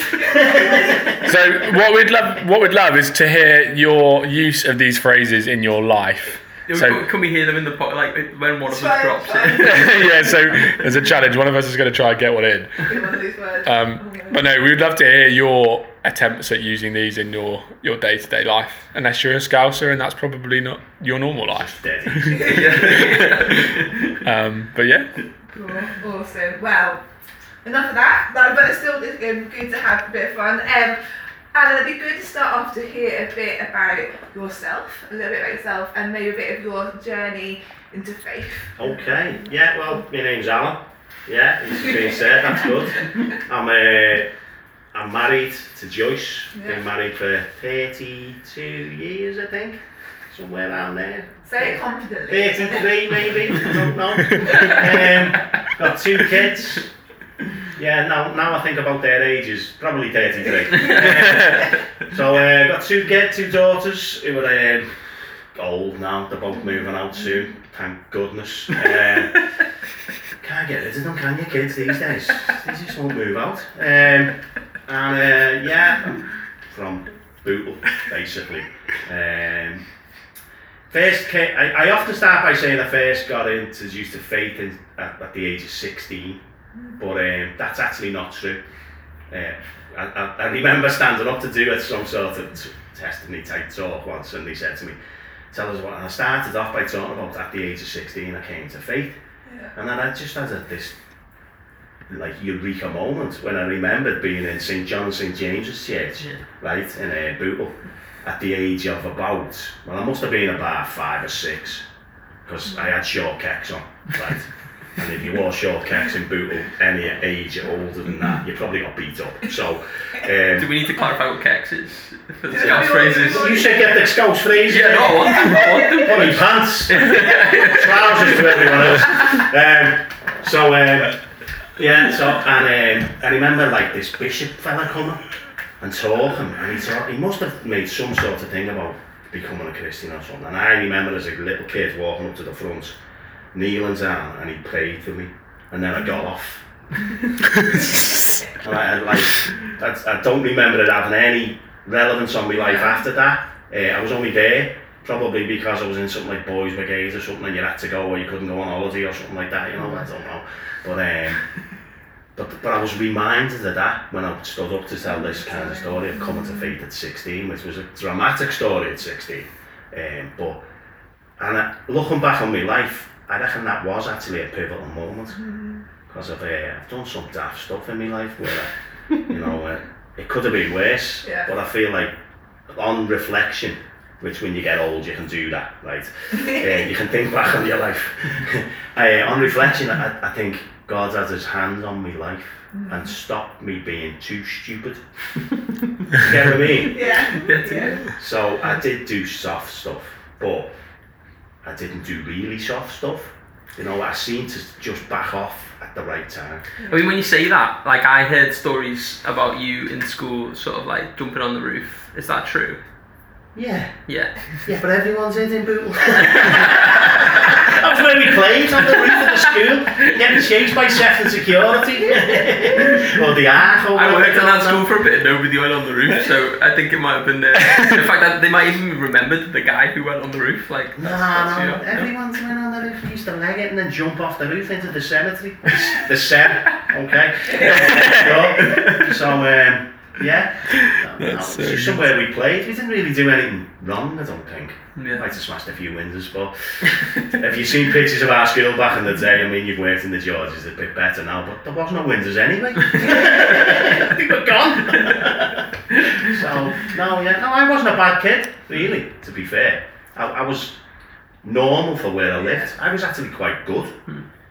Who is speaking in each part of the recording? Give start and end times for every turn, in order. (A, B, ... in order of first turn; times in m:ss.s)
0:00.2-0:00.5 A
0:00.4-0:00.9 B
0:01.2-0:07.0 C
0:06.7-0:10.8 D
0:08.7-0:10.4 B
0:09.5-0:13.0 C
0:12.8-0:14.4 B
0:13.6-0:23.6 C
0:21.5-0:23.0 A
0:22.4-0:24.1 D
0:24.2-0:25.3 C
0:25.5-0:27.0 B
0:27.6-0:31.0 B
0:31.5-0:38.8 B
0:38.8-0:44.3 A
0:44.9-0:56.9 A
0:46.5-0:46.8 B
0:51.4-0:53.0 B
0:57.6-1:05.0 A
1:00.8-1:01.1 D
1:05.5-1:09.5 A
1:10.4-1:19.8 A
1:20.9-1:26.4 A
1:27.0-1:28.6 A
1:29.3-1:35.0 A
1:35.5-1:39.2 A
1:39.4-1:39.7 B
1:39.7-1:41.0 A
1:42.1-1:51.9 A
1:52.4-2:00.9 A
2:00.6-2:03.6 D
2:02.5-2:03.8 B
2:02.5-2:11.2 A
2:04.6-2:09.2 D
2:05.2-2:05.9 B
2:11.7-2:15.2 A
2:15.8-2:23.0 A
2:23.5-2:26.7 A
2:28.6-2:41.5 A
2:32.6-2:33.0 B
2:42.3-2:50.6 A
2:45.1-2:46.4 B
2:51.4-2:55.4 A
2:55.4-2:55.8 B
2:56.1-3:02.2 A
3:02.7-3:15.3 A
3:12.7-3:13.0 B
3:16.1-3:17.2 A
3:16.9-3:18.1 B
3:17.0-3:18.1 D
3:18.1-3:20.7 A
3:21.6-3:26.6 A
3:26.8-3:27.1 B
3:26.9-3:32.8 D
3:33.5-3:44.8 A
3:34.1-3:34.6 D
3:36.4-3:37.6 D
3:38.9-3:39.5 D
3:43.9-3:52.1 D
3:51.0-4:20.8 A
3:57.6-3:58.4 C
4:01.2-4:02.0 C
4:05.0-4:05.2 D
4:21.4-4:24.0 A